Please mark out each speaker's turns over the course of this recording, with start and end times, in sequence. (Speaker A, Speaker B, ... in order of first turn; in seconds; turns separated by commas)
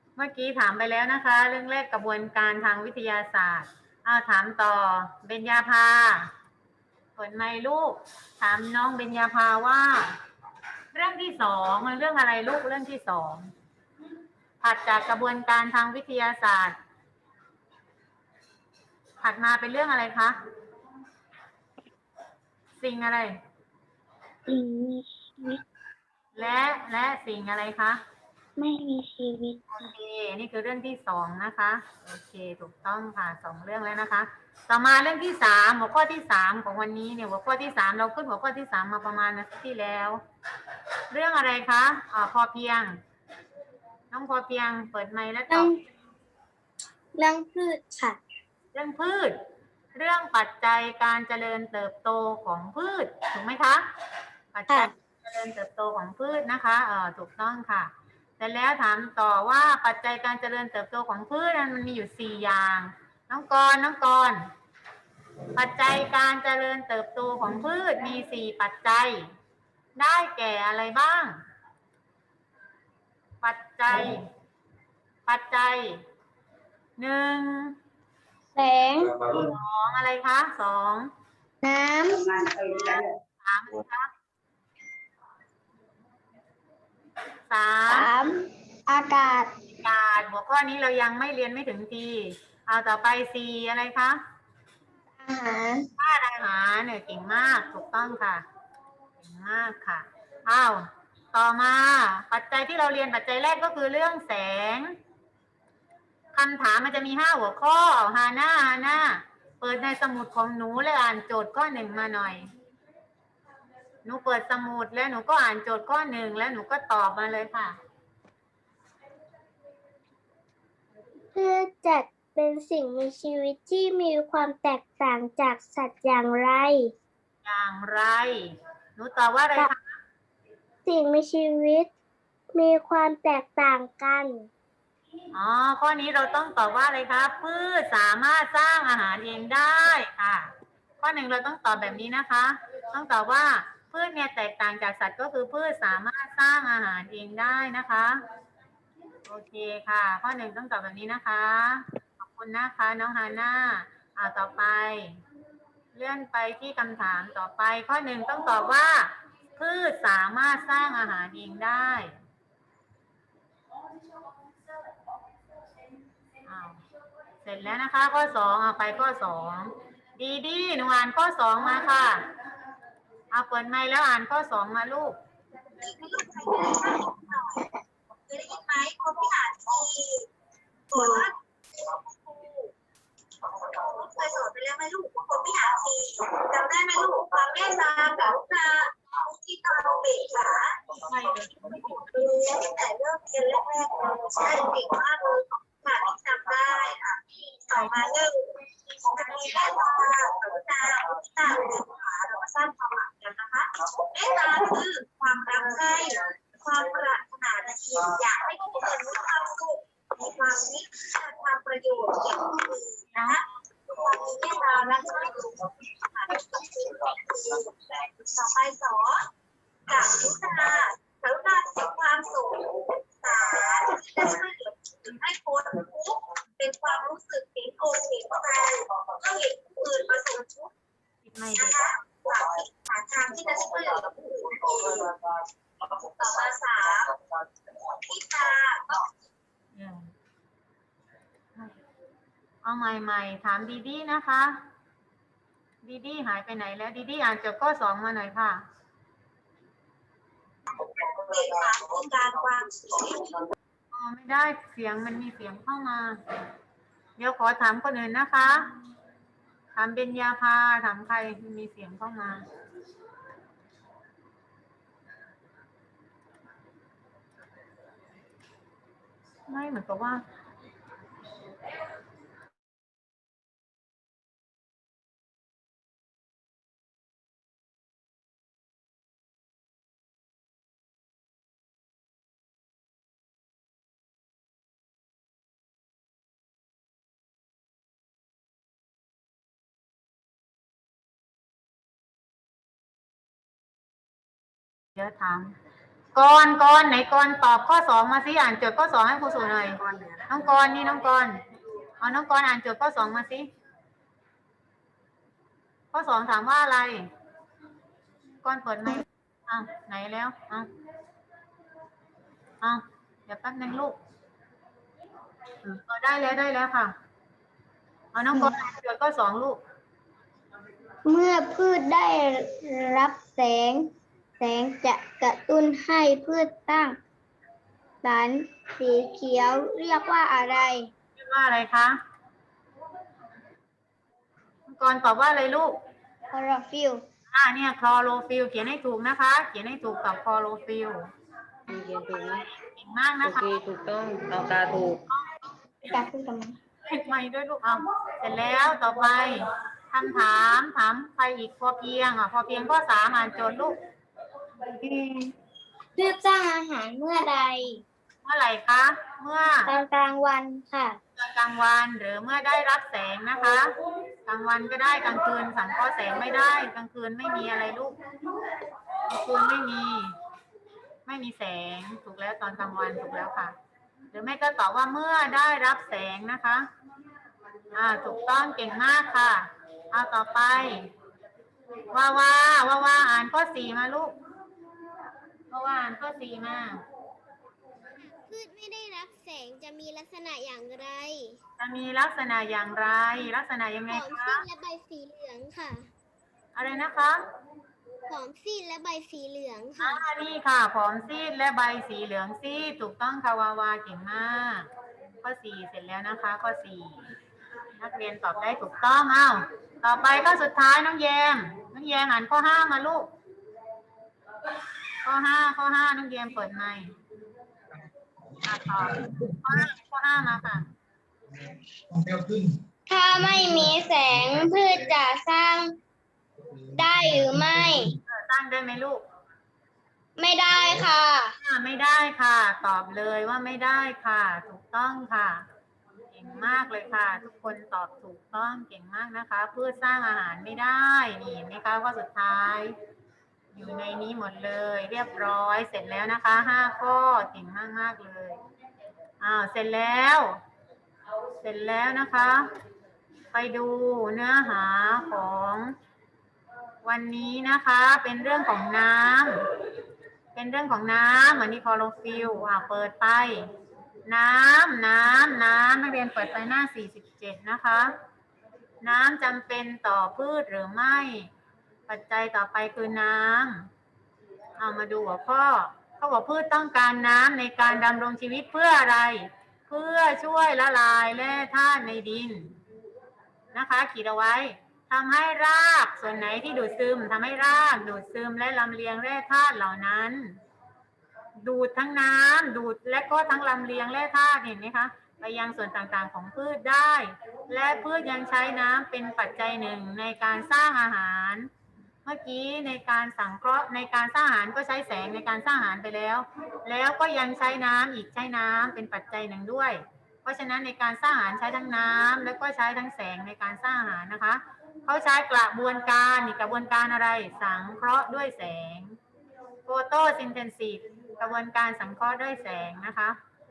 Speaker A: 0.2-6.3, Speaker A: 7.2-10.2, Speaker A: 10.9-13.5, Speaker A: 14.6-16.8, Speaker A: 19.2-20.4, Speaker A: 22.8-23.4, Speaker B: 24.5-25.6, Speaker A: 26.4-28.0, Speaker B: 28.6-29.7, Speaker A: 29.7-40.2, Speaker A: 41.1-43.0, Speaker A: 44.1-45.8, Speaker B: 45.5-45.8, Speaker B: 47.1-48.2, Speaker A: 48.7-49.4, Speaker A: 49.9-53.9, Speaker A: 54.5-64.5, Speaker A: 65.6-69.3, Speaker A: 70.0-71.4, Speaker A: 73.4-74.3, Speaker A: 75.3-76.0, Speaker A: 77.0-77.8, Speaker B: 78.5-79.3, Speaker A: 79.3-81.1, Speaker B: 81.6-83.0, Speaker A: 82.7-84.1, Speaker A: 87.5-88.1, Speaker B: 87.9-89.5, Speaker A: 89.7-94.2, Speaker B: 95.2-95.9, Speaker A: 96.0-98.4, Speaker A: 99.2-105.0, Speaker A: 106.3-112.5, Speaker A: 114.0-117.8, Speaker B: 121.3-126.9, Speaker A: 127.4-129.9, Speaker B: 130.8-131.9, Speaker B: 132.5-134.5, Speaker A: 135.3-148.2, Speaker A: 149.3-155.2, Speaker A: 155.9-162.2, Speaker A: 166.5-166.8, Speaker A: 167.4-172.3, Speaker A: 173.3-175.2, Speaker C: 175.8-177.7, Speaker C: 178.3-180.3, Speaker C: 180.9-182.7, Speaker B: 181.0-181.2, Speaker C: 183.4-191.0, Speaker A: 191.1-192.0, Speaker C: 191.6-219.2, Speaker C: 219.9-230.7, Speaker A: 231.2-231.8, Speaker C: 231.6-239.1, Speaker A: 239.8-240.1, Speaker A: 242.6-244.7, Speaker A: 245.8-248.6, Speaker C: 250.7-253.5, Speaker A: 253.9-256.2, Speaker A: 257.2-258.7, Speaker A: 259.8-262.4, Speaker A: 269.5-270.2, Speaker A: 294.9-295.6, Speaker A: 296.1-301.4, Speaker D: 299.9-300.2, Speaker A: 302.0-303.5, Speaker A: 305.9-307.1, Speaker A: 308.4-310.7, Speaker A: 312.6-314.0, Speaker A: 315.6-316.9, Speaker A: 318.1-319.6, Speaker B: 321.1-327.0, Speaker B: 328.0-330.9, Speaker A: 331.2-332.0, Speaker A: 334.7-335.8, Speaker B: 336.3-337.0, Speaker A: 337.3-341.1, Speaker D: 341.7-342.5, Speaker A: 342.8-343.5, Speaker D: 343.2-345.0, Speaker B: 345.9-346.6, Speaker A: 346.9-353.8, Speaker B: 354.6-355.3, Speaker B: 356.0-357.8, Speaker A: 358.2-359.7, Speaker B: 359.7-361.0, Speaker A: 361.2-368.0, Speaker A: 369.0-370.1, Speaker A: 371.1-373.6, Speaker A: 374.1-376.7, Speaker A: 377.7-380.9, Speaker A: 381.9-384.2, Speaker A: 385.5-386.8, Speaker E: 388.1-391.4, Speaker A: 391.6-394.4, Speaker E: 393.9-395.9, Speaker A: 396.6-397.2, Speaker E: 398.1-400.0, Speaker A: 399.8-404.7, Speaker A: 405.2-407.1, Speaker A: 407.8-413.1, Speaker A: 415.0-417.0, Speaker A: 418.4-420.7, Speaker B: 422.9-425.8, Speaker B: 426.7-427.9, Speaker A: 428.1-429.0, Speaker B: 430.2-431.3, Speaker A: 431.4-435.5, Speaker A: 436.1-442.8, Speaker A: 443.5-448.4, Speaker A: 449.2-450.4, Speaker A: 451.4-452.5, Speaker A: 453.3-455.7, Speaker A: 456.8-459.5, Speaker A: 460.4-463.5, Speaker A: 464.1-467.9, Speaker A: 468.8-471.3, Speaker A: 471.9-473.7, Speaker A: 474.6-482.6, Speaker A: 483.5-490.4, Speaker A: 491.4-501.5, Speaker A: 502.1-519.0, Speaker A: 519.7-523.2